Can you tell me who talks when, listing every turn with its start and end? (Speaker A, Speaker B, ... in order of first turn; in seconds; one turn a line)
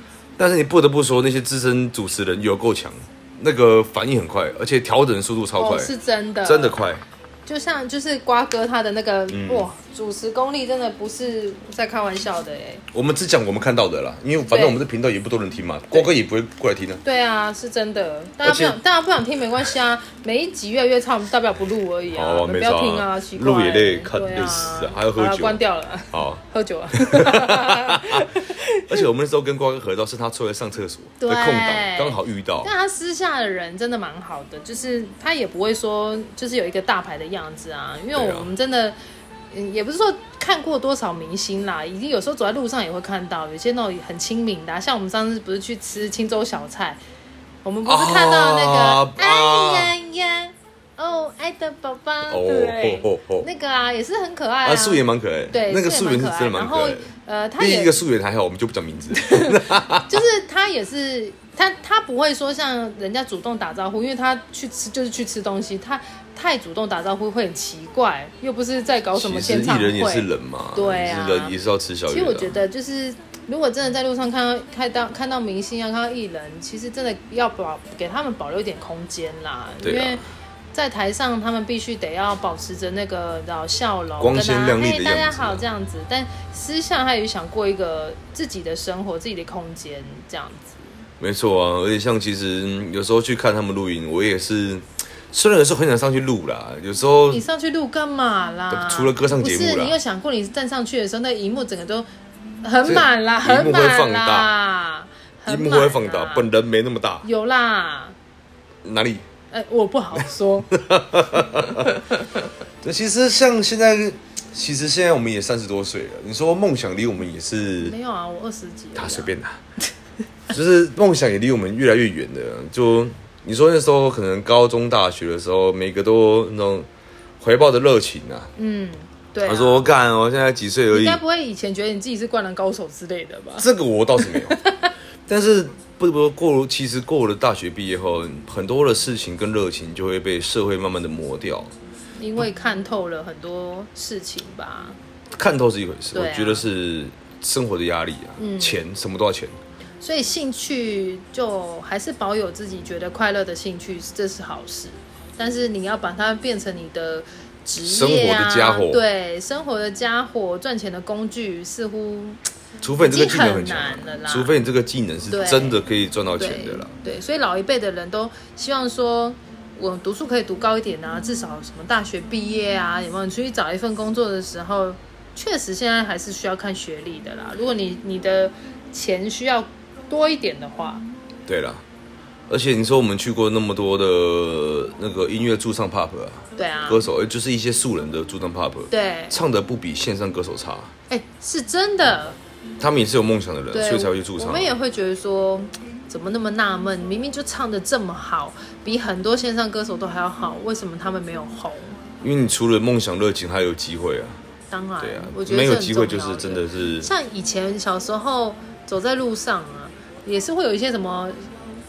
Speaker A: 0.4-5.9
Speaker B: 5.6-6.8
Speaker A: 6.4-7.0
Speaker B: 7.5-12.8
Speaker A: 9.3-9.7
Speaker A: 12.9-17.0
Speaker B: 14.4-14.8
Speaker B: 17.0-29.0
Speaker A: 18.4-18.8
Speaker A: 22.1-25.6
Speaker A: 26.1-26.4
Speaker A: 26.9-28.3
Speaker A: 28.9-32.7
Speaker B: 31.2-38.9
Speaker A: 38.1-38.5
Speaker B: 39.5-47.0
Speaker B: 47.6-57.9
Speaker A: 47.9-49.9
Speaker A: 52.3-53.5
Speaker A: 54.6-60.2
Speaker B: 59.2-71.5
Speaker A: 69.1-72.5
Speaker B: 72.1-80.2
Speaker A: 79.8-80.2
Speaker B: 80.7-90.9
Speaker A: 84.2-85.6
Speaker A: 91.2-97.4
Speaker B: 97.3-102.1
Speaker A: 98.7-100.0
Speaker B: 102.6-106.5
Speaker A: 102.8-104.5
Speaker A: 105.5-107.2
Speaker B: 107.2-108.2
Speaker A: 108.8-109.2
Speaker B: 109.5-110.7
Speaker A: 110.7-112.0
Speaker A: 112.8-117.9
Speaker B: 117.8-119.3
Speaker A: 118.9-119.6
Speaker A: 120.5-126.9
Speaker A: 127.4-128.5
Speaker B: 128.6-129.9
Speaker A: 129.4-131.2
Speaker B: 130.9-133.7
Speaker A: 133.6-134.6
Speaker B: 134.2-134.9
Speaker A: 135.3-141.7
Speaker B: 142.2-145.0
Speaker A: 145.3-149.6
Speaker B: 146.1-146.6
Speaker B: 148.4-148.8
Speaker B: 150.0-162.4
Speaker A: 157.8-159.0
Speaker A: 162.8-166.9
Speaker B: 163.0-164.5
Speaker B: 165.3-165.8
Speaker B: 166.4-181.0
Speaker A: 181.5-181.8
Speaker A: 182.5-190.9
Speaker B: 186.6-187.0
Speaker B: 188.9-189.4
Speaker B: 191.1-192.4
Speaker A: 192.8-194.7
Speaker B: 193.7-202.0
Speaker A: 202.2-204.4
Speaker B: 204.7-211.5
Speaker A: 205.0-207.1